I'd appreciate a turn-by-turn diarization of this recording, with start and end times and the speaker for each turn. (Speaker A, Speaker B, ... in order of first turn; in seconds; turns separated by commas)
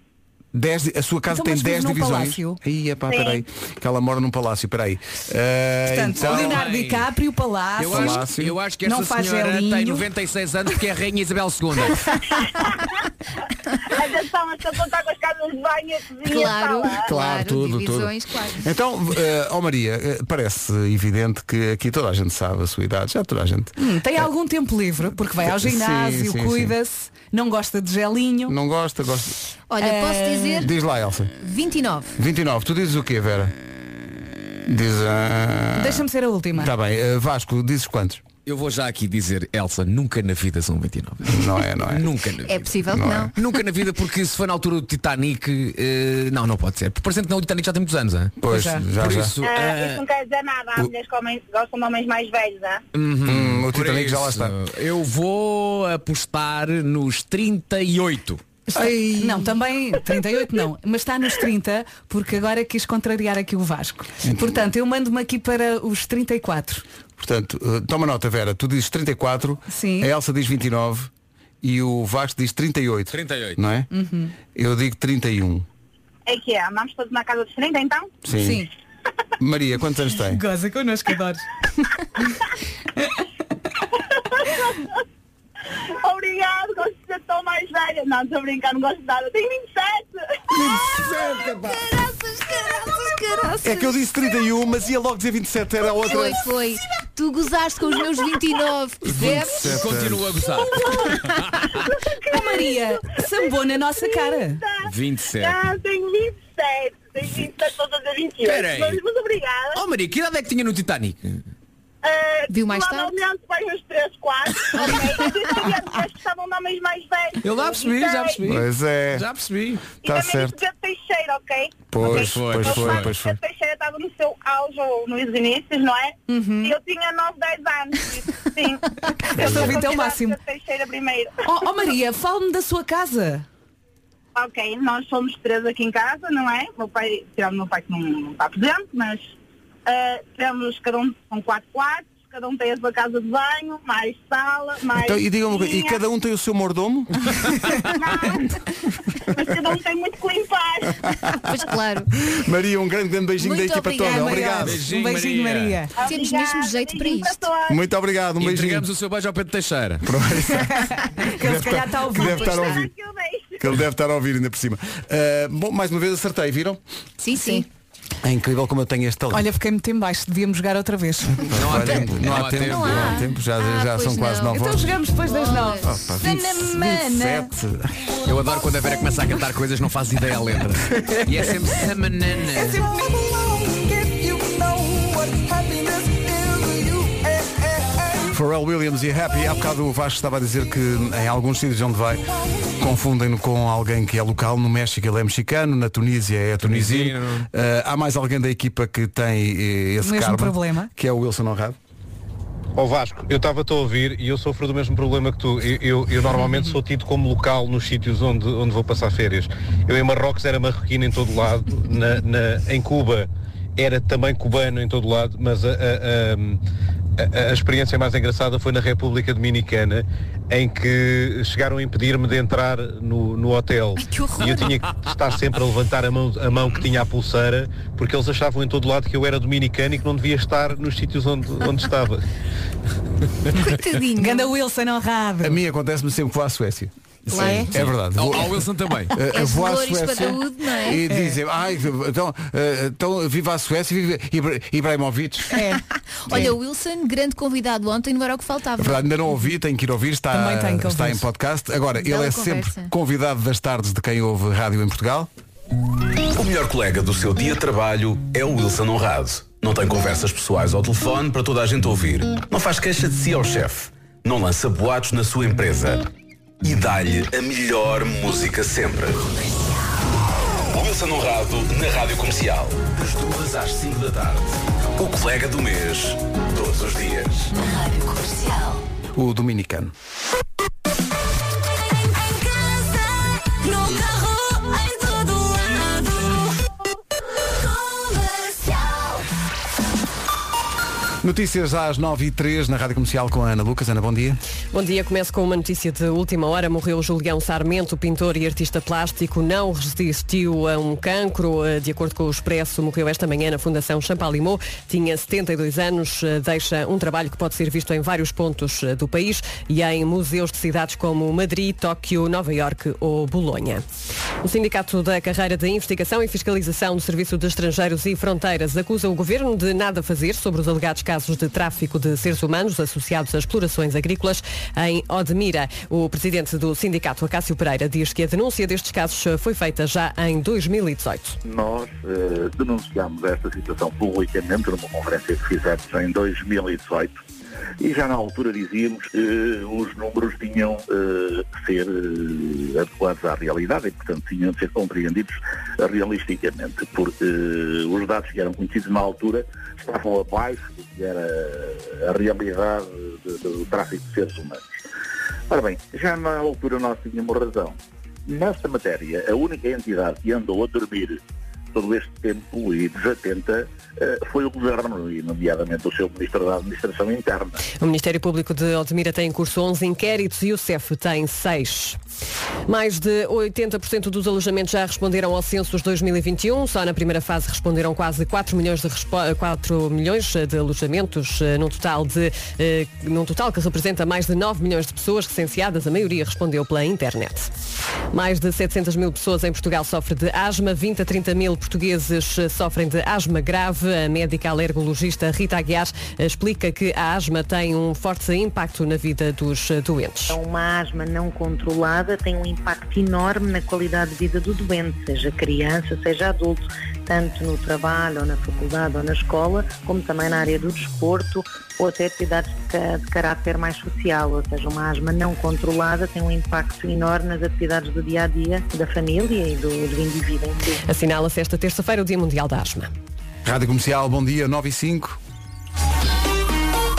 Speaker A: 0.5-6.7, Speaker B: 1.3-2.6, Speaker C: 3.1-3.4, Speaker B: 5.9-8.3, Speaker D: 6.2-7.1, Speaker D: 7.8-12.1, Speaker A: 7.9-8.6, Speaker B: 8.8-10.1, Speaker C: 13.9-17.1, Speaker E: 16.3-18.6, Speaker A: 17.0-24.3, Speaker B: 23.8-28.6, Speaker A: 25.4-26.8, Speaker A: 28.5-29.4, Speaker E: 29.7-30.8, Speaker B: 29.8-30.7, Speaker A: 30.6-31.3, Speaker E: 31.4-32.2, Speaker A: 32.2-33.5, Speaker A: 34.7-36.0, Speaker B: 35.8-36.7, Speaker A: 36.6-38.2, Speaker D: 38.5-42.7, Speaker A: 41.3-42.1, Speaker E: 42.4-43.3, Speaker A: 42.9-43.3, Speaker D: 43.3-48.4, Speaker A: 48.4-49.4, Speaker B: 48.5-48.8, Speaker D: 48.9-50.0, Speaker C: 49.4-52.8, Speaker D: 52.9-58.4, Speaker A: 53.2-54.5, Speaker B: 58.7-66.8, Speaker A: 58.8-59.3, Speaker A: 64.2-64.7, Speaker A: 67.2-71.1, Speaker B: 69.7-70.1, Speaker A: 71.6-73.9, Speaker D: 73.1-73.6, Speaker B: 73.9-74.3, Speaker A: 74.5-75.7, Speaker C: 76.3-78.1, Speaker A: 78.2-78.7, Speaker B: 78.3-78.7, Speaker A: 79.4-80.4, Speaker B: 80.2-81.5, Speaker B: 83.0-83.2, Speaker C: 84.1-85.0, Speaker C: 86.0-90.6, Speaker A: 90.5-91.9, Speaker E: 92.4-94.1, Speaker A: 93.6-96.4, Speaker E: 96.0-99.9, Speaker A: 99.0-100.4, Speaker D: 99.6-101.9, Speaker C: 100.7-101.0, Speaker C: 101.8-109.8, Speaker B: 102.3-104.6, Speaker D: 104.8-105.6, Speaker D: 108.4-109.0, Speaker D: 109.8-111.4, Speaker C: 112.0-118.4, Speaker E: 112.5-113.2, Speaker D: 117.4-120.0, Speaker A: 118.4-119.3, Speaker C: 120.0-131.4, Speaker A: 120.0-120.5, Speaker A: 121.9-123.3, Speaker D: 122.0-123.2, Speaker B: 126.3-126.8, Speaker B: 129.2-130.4, Speaker B: 131.4-133.5, Speaker C: 134.3-139.3, Speaker C: 139.9-146.0, Speaker A: 145.0-147.3, Speaker C: 147.9-148.5, Speaker C: 149.3-151.0, Speaker E: 151.5-152.1, Speaker A: 152.3-154.8, Speaker E: 153.4-154.6, Speaker B: 154.0-155.9, Speaker D: 154.6-155.8, Speaker C: 156.0-157.8, Speaker E: 156.0-157.5, Speaker A: 157.7-158.9, Speaker D: 158.4-160.1, Speaker A: 160.0-162.9, Speaker B: 160.5-162.8, Speaker C: 162.2-163.8, Speaker A: 163.6-166.8, Speaker E: 167.2-167.7, Speaker A: 168.2-169.5, Speaker B: 169.3-171.5, Speaker A: 171.5-175.0, Speaker D: 171.6-173.2, Speaker E: 172.5-174.6, Speaker B: 174.5-177.5, Speaker E: 175.2-176.0, Speaker A: 175.8-178.1, Speaker D: 178.2-182.8, Speaker A: 181.1-181.4, Speaker B: 182.6-183.3, Speaker A: 188.3-192.3, Speaker A: 192.8-201.8, Speaker D: 196.6-197.5, Speaker B: 200.0-200.9, Speaker F: 202.8-216.6, Speaker F: 217.2-232.2, Speaker E: 224.0-224.7, Speaker E: 233.6-234.5, Speaker B: 234.2-235.6, Speaker A: 235.4-245.6, Speaker E: 237.3-237.7, Speaker D: 237.3-239.2, Speaker E: 239.2-241.1, Speaker B: 241.1-241.4, Speaker B: 245.5-245.8, Speaker E: 245.7-249.1, Speaker A: 248.8-255.3, Speaker B: 250.3-251.2, Speaker E: 252.0-252.9, Speaker G: 256.4-266.1, Speaker G: 266.6-269.3, Speaker G: 270.7-277.5, Speaker H: 277.6-278.8, Speaker A: 279.2-279.9, Speaker H: 281.8-286.4, Speaker H: 287.5-289.3, Speaker A: 291.2-294.4, Speaker I: 294.7-313.9, Speaker I: 314.4-331.4, Speaker J: 331.4-337.2, Speaker J: 337.8-354.7, Speaker J: 355.5-361.2, Speaker J: 361.7-367.6, Speaker I: 367.8-372.0, Speaker I: 372.7-387.5, Speaker I: 388.1-400.4, Speaker K: 400.3-420.8, Speaker I: 420.9-422.9, Speaker A: 423.4-425.2